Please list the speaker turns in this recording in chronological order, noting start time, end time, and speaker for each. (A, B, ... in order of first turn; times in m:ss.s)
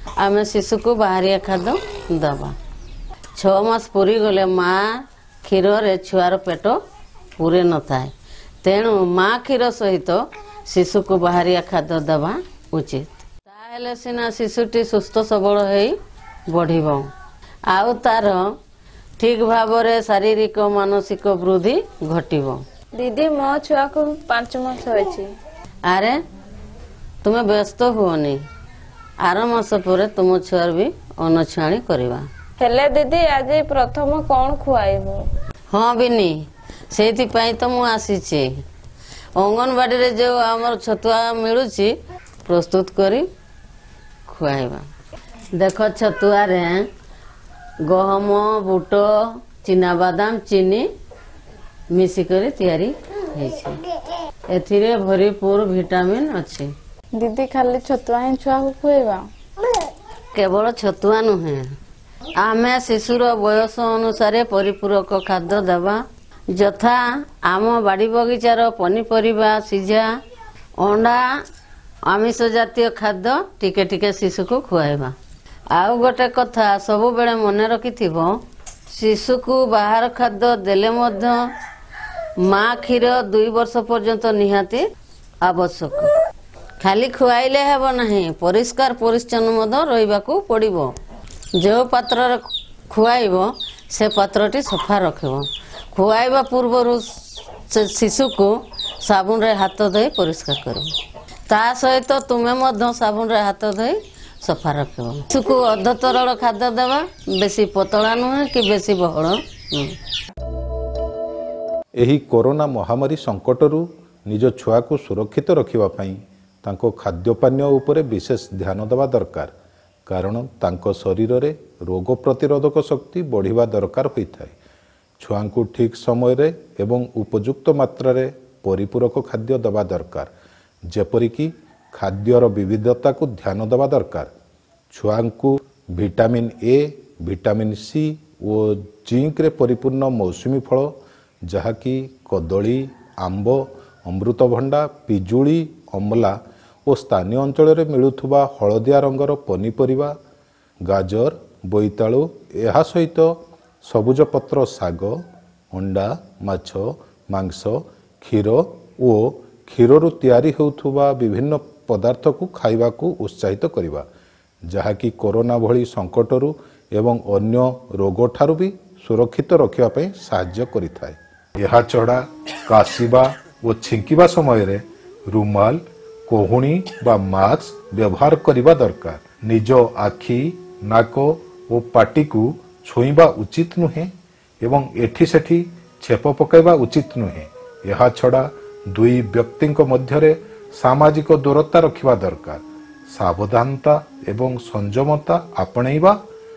0:00.2-0:02.6 A
0:03.3-0:06.8 A
0:07.4-0:16.0 A
0:16.5-0:17.1 A
0:17.7-0:18.5 A
0:19.2-0:22.6 A
0:22.9-0:25.3 B
0:25.9-0:26.2 A
0:27.2-0:28.4 A
0:29.2-0:32.3 A
0:32.6-0:35.2 B
0:35.7-0:36.4 A
0:36.9-0:38.5 A
0:39.4-0:41.9 A
0:42.4-0:43.2 A
0:44.3-0:44.8 A
0:45.5-0:46.9 A
0:47.8-0:50.9 A
0:51.9-0:53.8 A
0:54.5-0:56.7 A
0:57.2-0:59.2 B
1:00.3-1:01.7 A
1:02.4-1:10.1 A
1:10.8-1:11.3 A
1:12.1-1:15.1 A
1:15.7-1:18.3 A
1:18.9-1:21.4 A
1:22.4-1:24.8 A
1:25.4-1:26.1 A
1:26.8-1:30.9 A
1:31.6-1:40.9 A
1:41.5-1:50.0 A
1:52.0-1:59.5 C
2:00.1-2:04.6 C
2:05.2-2:10.3 C
2:10.9-2:14.3 C
2:14.9-2:20.9 C
2:21.4-2:26.4 C
2:26.9-2:30.1 C
2:30.9-2:33.3 C
2:33.8-2:35.2 C
2:35.7-2:44.0 C
2:44.7-3:16.2 C